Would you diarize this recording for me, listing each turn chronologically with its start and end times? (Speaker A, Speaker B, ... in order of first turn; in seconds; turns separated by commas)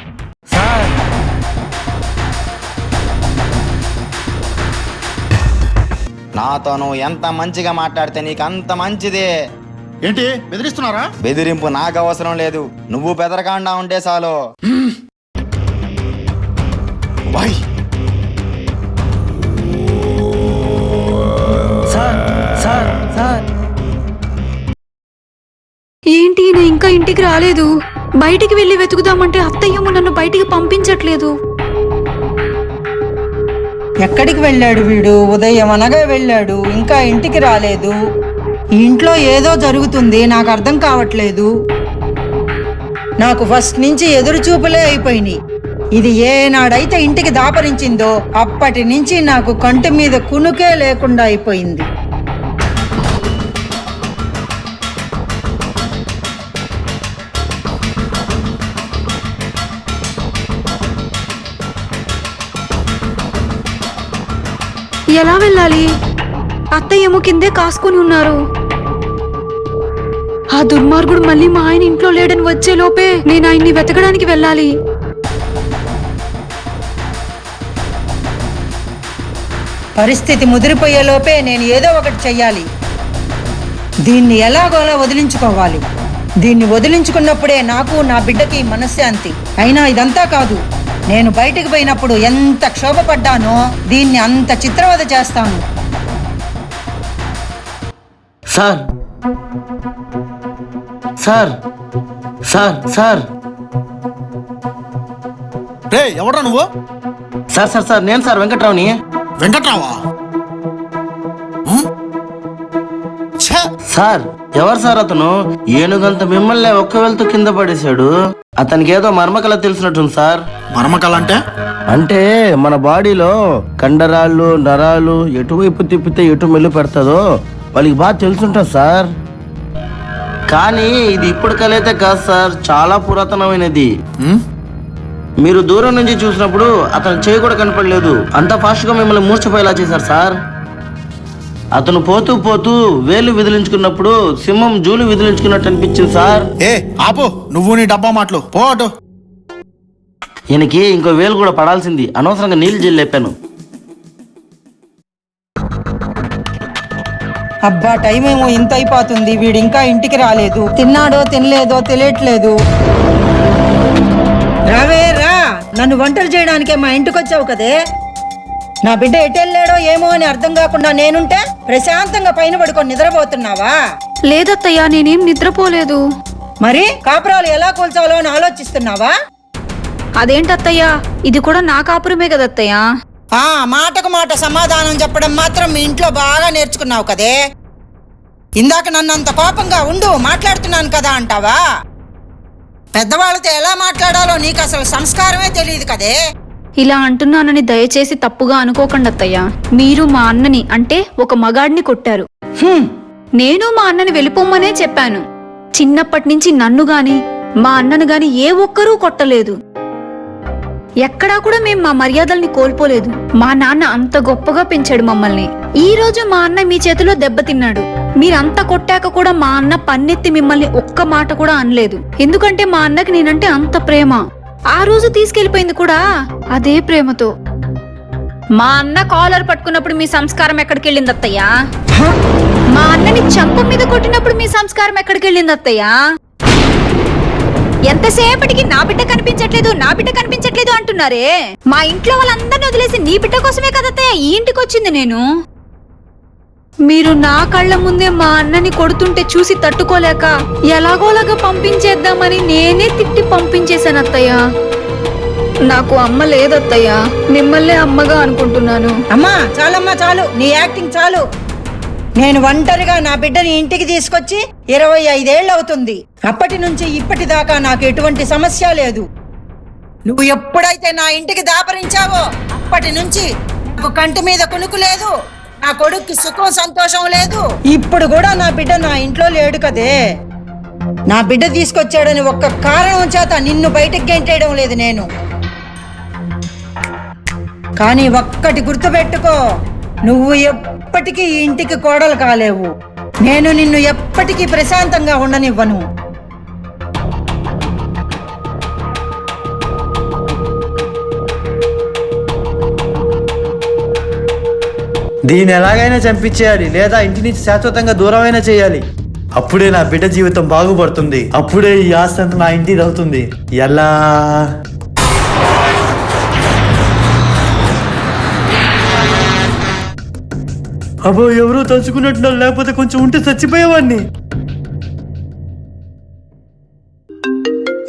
Speaker A: 0.5-0.9, Speaker B: 6.3-9.3, Speaker C: 10.1-11.1, Speaker B: 11.2-14.3, Speaker A: 21.9-23.4, Speaker D: 26.1-27.7, Speaker D: 28.2-31.3, Speaker E: 34.0-38.0, Speaker E: 38.8-41.5, Speaker E: 43.2-45.4, Speaker E: 46.0-51.9, Speaker D: 65.1-65.9, Speaker D: 66.7-68.4, Speaker D: 70.5-74.7, Speaker E: 80.0-82.7, Speaker E: 84.1-85.8, Speaker E: 86.4-90.6, Speaker E: 91.1-95.6, Speaker A: 98.5-98.8, Speaker A: 101.2-101.5, Speaker A: 102.5-103.2, Speaker C: 105.9-106.7, Speaker A: 107.5-108.9, Speaker C: 109.4-110.0, Speaker C: 113.4-113.7, Speaker A: 113.9-120.4, Speaker C: 120.7-121.4, Speaker A: 121.9-127.2, Speaker A: 127.7-129.1, Speaker A: 130.5-133.9, Speaker A: 135.4-140.4, Speaker A: 141.7-146.5, Speaker C: 146.6-148.9, Speaker A: 150.5-153.3, Speaker E: 157.7-162.5, Speaker E: 164.7-167.7, Speaker E: 168.8-173.7, Speaker D: 174.3-176.0, Speaker E: 176.6-179.1, Speaker D: 180.2-182.8, Speaker E: 183.4-187.4, Speaker E: 188.6-191.6, Speaker E: 192.9-196.2, Speaker D: 196.8-202.2, Speaker E: 202.6-202.9, Speaker D: 203.4-205.2, Speaker D: 205.8-209.6, Speaker D: 211.0-224.2, Speaker D: 224.7-226.0, Speaker D: 226.5-227.3, Speaker D: 228.6-231.5, Speaker D: 232.8-235.9, Speaker D: 237.9-245.2, Speaker D: 246.9-254.4, Speaker D: 255.7-258.9, Speaker E: 259.1-261.2, Speaker E: 262.2-269.0, Speaker E: 270.1-275.1, Speaker E: 275.6-279.9, Speaker E: 281.1-285.1, Speaker E: 287.8-289.4, Speaker E: 290.1-292.7, Speaker E: 293.2-295.8, Speaker F: 305.3-308.8, Speaker F: 309.4-314.5, Speaker F: 321.1-324.0